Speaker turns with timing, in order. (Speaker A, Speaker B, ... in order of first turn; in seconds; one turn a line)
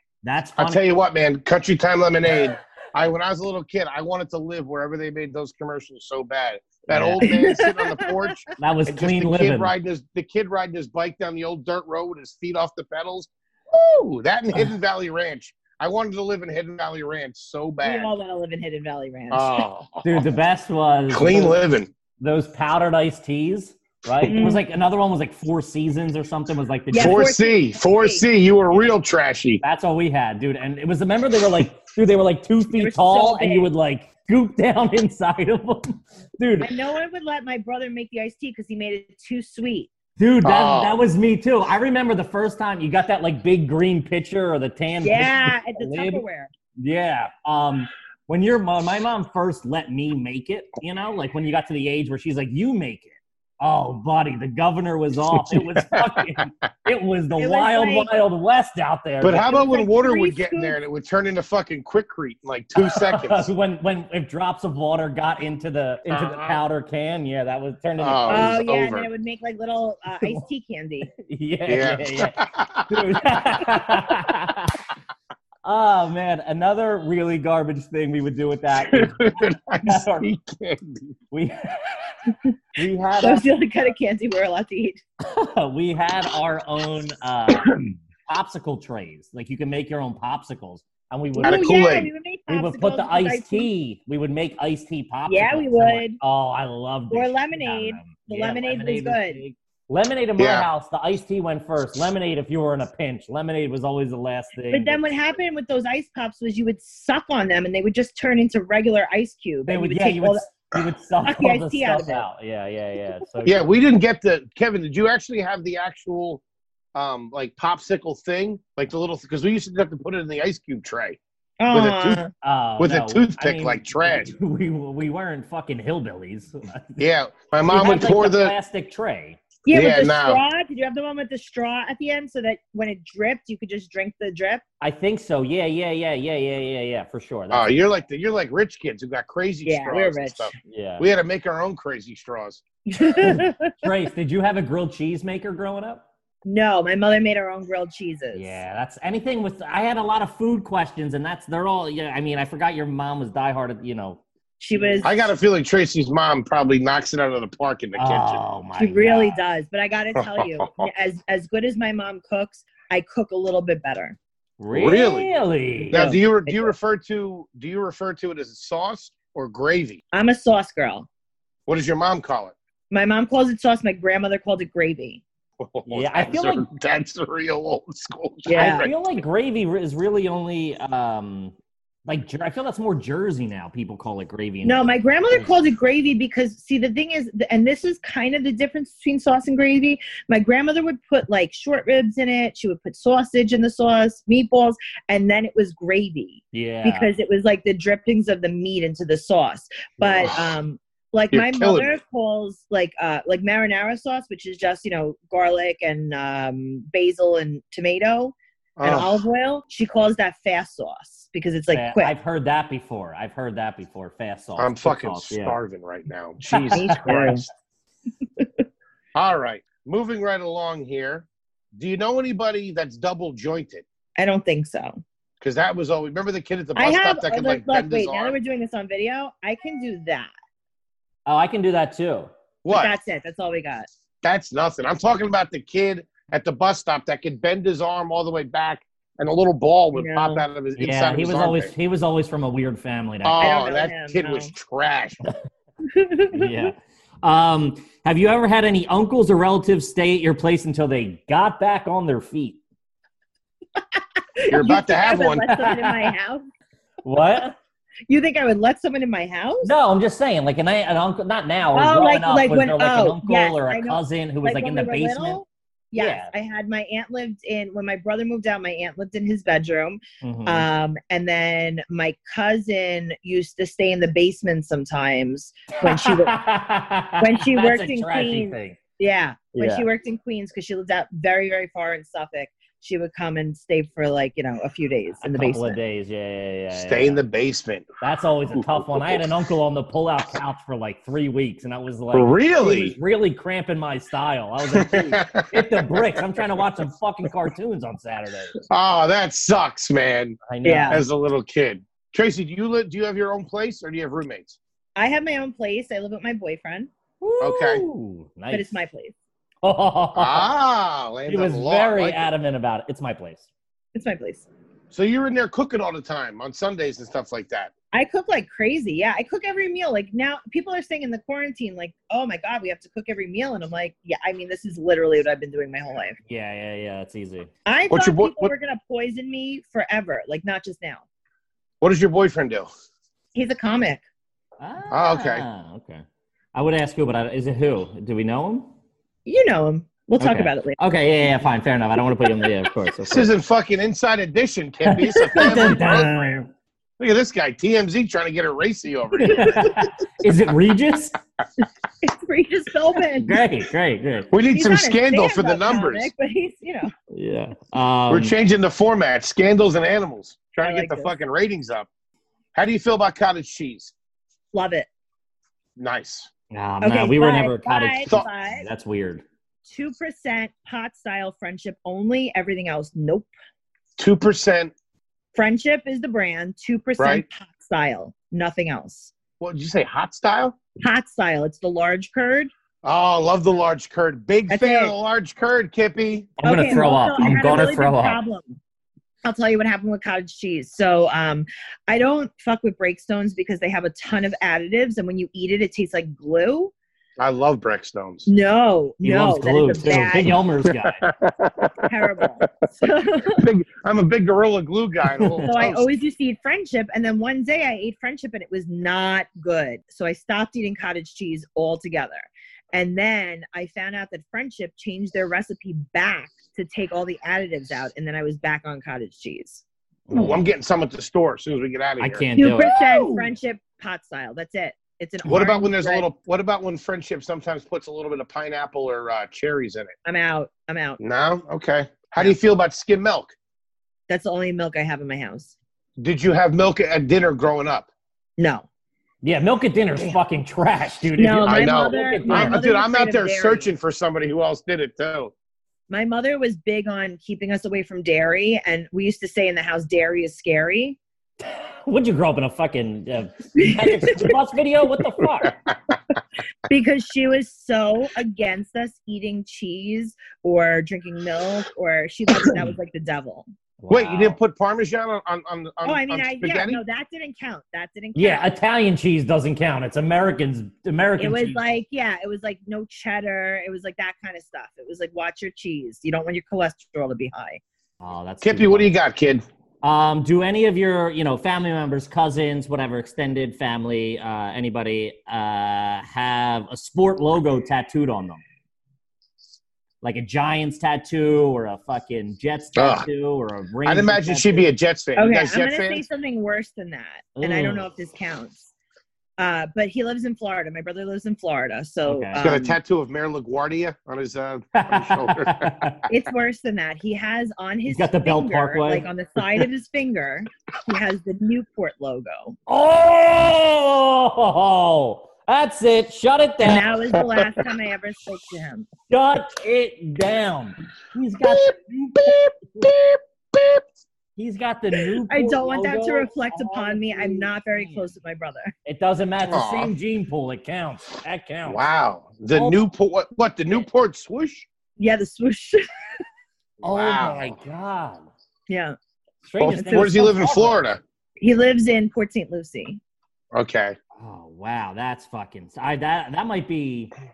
Speaker A: 0.2-0.9
Speaker B: 0.6-18.1
Speaker A: 6.9-7.3
Speaker C: 7.2-8.4
Speaker A: 8.6-9.7
Speaker C: 17.8-19.6
Speaker B: 19.3-20.3
Speaker A: 20.0-21.6
Speaker B: 21.1-21.9
Speaker A: 22.2-27.2
Speaker C: 24.3-24.6
Speaker C: 26.9-28.2
Speaker B: 26.9-29.6
Speaker A: 29.6-36.7
Speaker C: 32.7-33.7
Speaker C: 36.6-39.9
Speaker A: 40.2-46.2
Speaker B: 40.4-41.0
Speaker C: 45.0-46.5
Speaker A: 46.8-59.6
Speaker B: 55.3-56.4
Speaker C: 57.4-58.1
Speaker B: 59.2-63.5
Speaker C: 59.5-60.8
Speaker A: 62.8-68.6
Speaker B: 66.1-66.6
Speaker B: 68.0-69.1
Speaker C: 68.3-71.1
Speaker A: 71.2-74.8
Speaker B: 71.7-73.1
Speaker A: 75.6-80.3
Speaker B: 78.9-81.1
Speaker A: 81.3-81.9
Speaker A: 82.8-83.5
Speaker C: 83.2-85.0
Speaker A: 85.2-91.7
Speaker C: 91.3-93.7
Speaker B: 91.4-92.1
Speaker A: 92.5-105.0
Speaker C: 95.3-96.2
Speaker C: 97.1-99.4
Speaker B: 100.4-100.7
Speaker C: 104.7-110.5
Speaker A: 109.7-113.7
Speaker C: 111.2-112.2
Speaker B: 113.5-116.4
Speaker B: 117.0-121.2
Speaker C: 121.6-122.3
Speaker B: 121.7-122.2
Speaker A: 122.4-127.1
Speaker B: 122.8-124.3
Speaker B: 127.0-128.6
Speaker A: 127.6-129.4
Speaker C: 129.7-134.6
Speaker B: 129.7-130.4
Speaker A: 134.8-137.8
Speaker B: 137.5-142.6
Speaker C: 139.7-140.5
Speaker A: 140.7-141.1
Speaker C: 142.9-143.9
Speaker A: 143.2-146.1
Speaker C: 146.4-148.6
Speaker A: 148.3-154.2
Speaker C: 154.6-155.2
Speaker A: 154.8-155.0
Speaker B: 155.0-158.4
Speaker A: 158.0-159.4
Speaker C: 158.8-164.2
Speaker B: 160.2-160.9
Speaker A: 164.6-166.1
Speaker B: 164.7-165.3
Speaker C: 165.9-166.7
Speaker B: 165.9-170.0
Speaker C: 170.1-171.1
Speaker B: 171.7-172.6
Speaker C: 172.9-175.2
Speaker B: 175.6-178.9
Speaker A: 175.9-176.7
Speaker C: 178.5-178.9
Speaker A: 178.5-181.5
Speaker A: 182.1-184.8
Speaker C: 184.6-212.1
Speaker A: 196.5-197.1
Speaker B: 201.3-201.9
Speaker B: 208.8-209.2
Speaker A: 211.7-215.6
Speaker B: 214.6-217.5
Speaker A: 216.5-217.2
Speaker C: 216.7-217.4
Speaker B: 219.2-223.8
Speaker C: 224.2-225.0
Speaker B: 225.4-228.4
Speaker C: 226.8-230.3
Speaker A: 231.3-232.3
Speaker B: 232.6-232.9
Speaker C: 232.7-233.9
Speaker B: 234.2-241.7
Speaker C: 239.9-240.4
Speaker A: 240.8-243.6
Speaker B: 243.2-245.2
Speaker C: 243.4-244.5
Speaker C: 245.9-246.7
Speaker A: 246.3-252.6
Speaker C: 254.4-256.4
Speaker B: 254.5-255.6
Speaker A: 255.5-256.1
Speaker A: 257.0-257.6
Speaker C: 258.1-259.7
Speaker A: 259.6-265.4
Speaker C: 261.7-276.4
Speaker A: 266.0-266.3
Speaker A: 270.2-270.7
Speaker A: 275.8-278.8
Speaker C: 277.2-285.8
Speaker A: 279.6-279.9
Speaker A: 285.2-287.2
Speaker B: 286.7-287.9
Speaker A: 288.0-298.6
Speaker B: 288.6-289.1
Speaker B: 292.1-293.0
Speaker B: 294.7-296.1
Speaker B: 298.7-304.6
Speaker A: 300.5-301.0
Speaker C: 300.6-301.0
Speaker C: 305.0-306.9
Speaker A: 307.2-308.8
Speaker B: 307.4-307.8
Speaker C: 308.5-309.1
Speaker A: 309.6-310.5
Speaker B: 310.1-312.2
Speaker A: 311.3-313.5
Speaker C: 313.9-314.5
Speaker B: 314.9-317.7
Speaker C: 317.9-326.2
Speaker A: 326.3-327.5
Speaker C: 327.7-331.0
Speaker B: 327.9-328.5
Speaker B: 331.8-332.7
Speaker C: 333.3-334.0
Speaker A: 334.6-338.7
Speaker B: 334.9-335.4
Speaker C: 339.3-340.8
Speaker A: 340.2-343.3
Speaker B: 343.1-346.1
Speaker A: 344.9-346.5
Speaker C: 345.3-345.8
Speaker B: 347.0-349.7
Speaker A: 349.2-351.2
Speaker C: 349.3-349.6
Speaker C: 351.6-353.4
Speaker A: 353.2-354.3
Speaker B: 354.3-356.1
Speaker C: 354.5-356.9
Speaker A: 357.1-358.3
Speaker B: 358.1-361.9
Speaker C: 360.6-361.1
Speaker B: 362.6-363.9
Speaker C: 364.5-364.9
Speaker B: 365.8-366.3
Speaker A: 366.5-369.2
Speaker C: 366.8-368.6
Speaker C: 369.7-373.3
Speaker B: 374.0-374.7
Speaker C: 375.4-379.1
Speaker B: 377.0-377.2
Speaker B: 379.4-380.6
Speaker C: 380.8-382.5
Speaker B: 382.8-387.0
Speaker C: 384.5-384.9
Speaker A: 386.4-388.2
Speaker C: 386.4-388.6
Speaker C: 389.2-396.7
Speaker B: 397.2-398.3
Speaker C: 398.3-400.4
Speaker A: 399.0-401.0
Speaker B: 400.7-401.9
Speaker C: 401.9-403.5
Speaker B: 403.4-405.9
Speaker A: 405.2-405.7
Speaker C: 405.4-419.6
Speaker A: 420.1-420.4
Speaker B: 420.1-422.2
Speaker A: 422.0-423.3
Speaker C: 422.4-426.1
Speaker B: 425.2-429.9
Speaker C: 430.1-431.0
Speaker B: 431.0-433.3
Speaker C: 434.1-435.6
Speaker B: 436.0-437.9
Speaker C: 438.4-438.7
Speaker A: 439.2-442.6
Speaker C: 441.2-443.7
Speaker B: 441.5-445.3
Speaker C: 445.9-451.0
Speaker A: 451.9-455.6
Speaker C: 453.6-454.4
Speaker C: 456.7-463.5
Speaker A: 463.8-464.4
Speaker B: 463.9-466.8
Speaker C: 465.8-468.5
Speaker A: 468.1-471.6
Speaker C: 471.2-477.6
Speaker A: 478.0-478.9
Speaker B: 478.4-479.4
Speaker A: 479.8-488.4
Speaker A: 490.0-494.6
Speaker B: 492.8-493.1
Speaker B: 493.9-496.1
Speaker C: 495.2-498.7
Speaker A: 497.4-497.9
Speaker C: 499.4-502.8
Speaker A: 502.1-502.5
Speaker B: 502.4-505.7
Speaker A: 504.7-506.1
Speaker C: 506.1-512.6
Speaker A: 507.9-509.6
Speaker A: 512.7-517.0
Speaker C: 516.6-518.9
Speaker B: 517.2-517.5
Speaker A: 519.1-522.9
Speaker B: 521.4-523.8
Speaker A: 524.4-528.1
Speaker C: 525.3-528.7
Speaker A: 528.9-531.8
Speaker B: 529.5-529.9
Speaker B: 531.7-534.7
Speaker C: 535.0-535.8
Speaker B: 536.8-537.6
Speaker A: 536.8-538.3
Speaker C: 538.7-539.0
Speaker A: 539.4-540.8
Speaker B: 539.6-541.0
Speaker C: 539.7-540.3
Speaker C: 541.4-543.0
Speaker B: 543.5-544.0
Speaker A: 544.2-547.1